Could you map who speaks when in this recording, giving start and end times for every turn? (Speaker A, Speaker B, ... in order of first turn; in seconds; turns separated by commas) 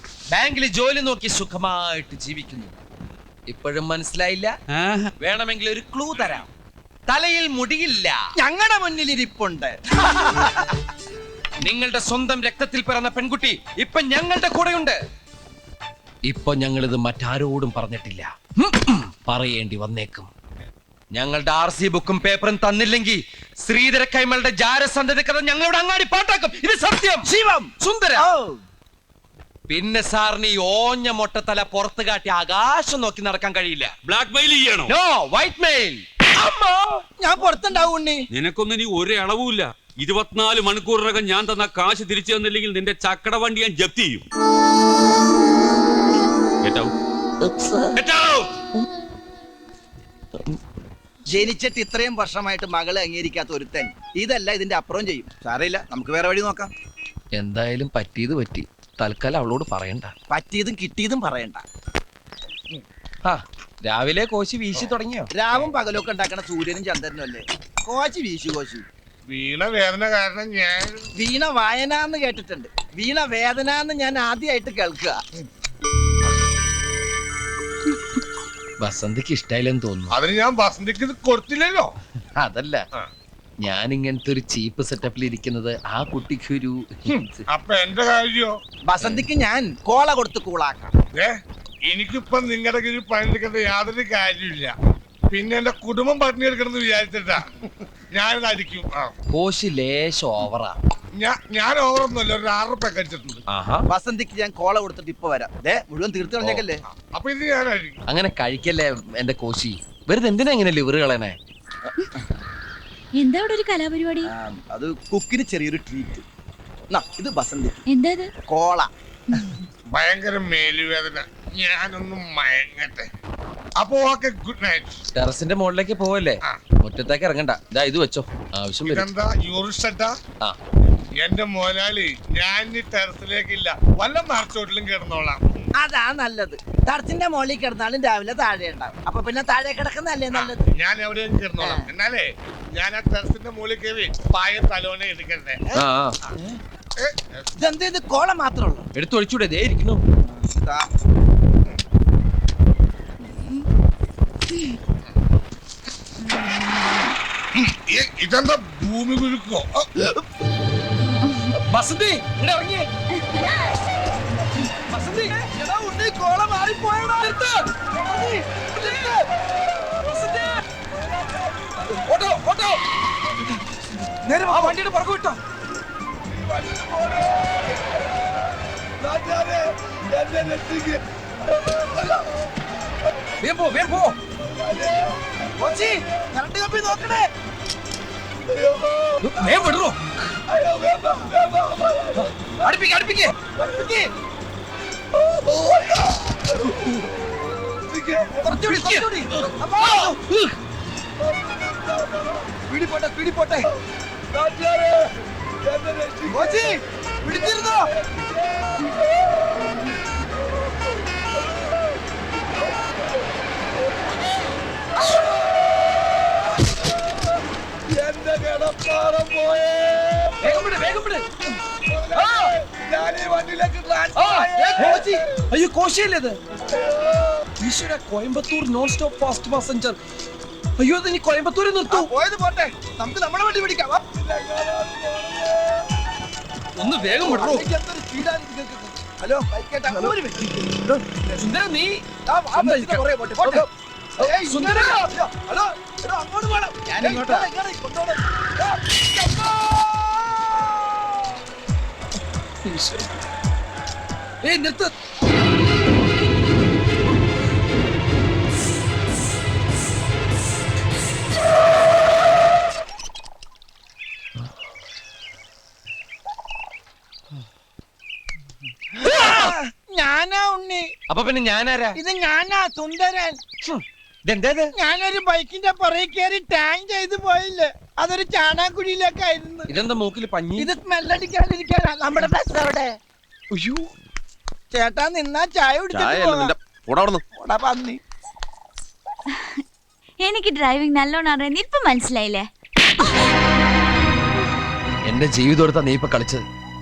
Speaker A: 0.3-2.7, Speaker A: 3.5-4.5, Speaker B: 4.7-5.1, Speaker A: 5.2-6.5, Speaker A: 7.1-8.3, Speaker C: 8.4-10.7, Speaker A: 11.6-15.0, Speaker A: 16.2-20.3, Speaker A: 21.1-28.3, Speaker C: 27.2-28.6, Speaker A: 29.7-33.9, Speaker B: 34.0-34.9, Speaker A: 34.9-36.2, Speaker C: 36.4-38.2, Speaker B: 38.3-44.3, Speaker B: 46.6-46.9, Speaker A: 47.4-48.0, Speaker B: 48.0-48.6, Speaker C: 51.3-56.7, Speaker A: 57.4-60.1, Speaker C: 60.3-61.6, Speaker A: 63.2-65.3, Speaker C: 65.3-68.8, Speaker D: 69.3-71.1, Speaker C: 71.2-75.2, Speaker A: 78.8-80.1, Speaker D: 80.1-81.9, Speaker A: 82.4-82.8, Speaker A: 83.6-87.5, Speaker D: 87.1-88.5, Speaker C: 88.9-90.9, Speaker D: 91.1-94.7, Speaker D: 95.3-97.5, Speaker D: 98.1-99.1, Speaker A: 99.3-100.8, Speaker D: 101.2-103.4, Speaker A: 103.5-103.8, Speaker C: 103.9-106.8, Speaker D: 106.9-108.0, Speaker A: 108.1-111.4, Speaker E: 113.2-114.3, Speaker C: 114.2-116.2, Speaker C: 116.9-117.8, Speaker E: 117.9-118.3, Speaker C: 118.5-118.9, Speaker D: 119.9-123.1, Speaker D: 123.8-125.0, Speaker A: 125.1-129.1, Speaker D: 128.8-130.2, Speaker D: 131.2-135.4, Speaker C: 135.8-140.6, Speaker D: 140.3-145.8, Speaker C: 141.6-141.9, Speaker A: 145.7-146.2, Speaker D: 147.0-147.4, Speaker C: 147.6-148.8, Speaker A: 148.9-150.0, Speaker C: 150.2-150.8, Speaker E: 153.2-153.7, Speaker E: 156.2-157.1, Speaker D: 157.5-160.1, Speaker E: 161.0-161.5, Speaker A: 161.5-162.9, Speaker A: 164.9-169.2, Speaker A: 169.8-170.6, Speaker A: 171.6-172.8, Speaker C: 174.2-174.8, Speaker A: 174.4-175.4, Speaker D: 176.3-178.1, Speaker D: 179.0-182.3, Speaker A: 183.4-184.2, Speaker D: 184.5-185.3, Speaker C: 185.6-187.3, Speaker D: 188.6-189.3, Speaker A: 189.2-190.0, Speaker D: 190.5-192.2, Speaker A: 192.2-193.3, Speaker C: 193.5-194.1, Speaker D: 195.2-198.6, Speaker C: 198.4-200.2, Speaker A: 198.5-199.1, Speaker A: 199.9-200.5, Speaker D: 201.3-202.4, Speaker C: 202.7-203.7, Speaker D: 204.3-205.1, Speaker D: 205.6-206.5, Speaker C: 206.3-207.9, Speaker D: 217.9-220.5, Speaker A: 220.4-221.3, Speaker D: 221.9-225.4, Speaker A: 222.1-222.5, Speaker A: 224.1-226.4, Speaker C: 224.6-225.2, Speaker D: 226.7-227.2, Speaker A: 227.6-230.0, Speaker A: 230.8-232.1, Speaker C: 231.9-234.1, Speaker D: 234.2-235.6, Speaker A: 236.8-237.7, Speaker C: 237.1-241.4, Speaker A: 240.7-242.0, Speaker C: 242.3-249.9, Speaker A: 242.6-243.6, Speaker A: 244.2-245.1, Speaker A: 246.8-247.5, Speaker A: 252.6-253.0, Speaker A: 254.4-254.9, Speaker C: 269.0-270.9, Speaker A: 269.1-269.5, Speaker A: 271.1-272.0, Speaker C: 271.9-273.4, Speaker A: 273.6-274.7, Speaker C: 274.8-279.7, Speaker A: 279.7-280.7, Speaker C: 280.6-282.9, Speaker A: 283.5-283.9, Speaker C: 284.7-286.5, Speaker A: 285.9-287.2, Speaker C: 287.3-288.0, Speaker E: 289.3-289.6, Speaker E: 290.2-293.3, Speaker A: 295.1-296.4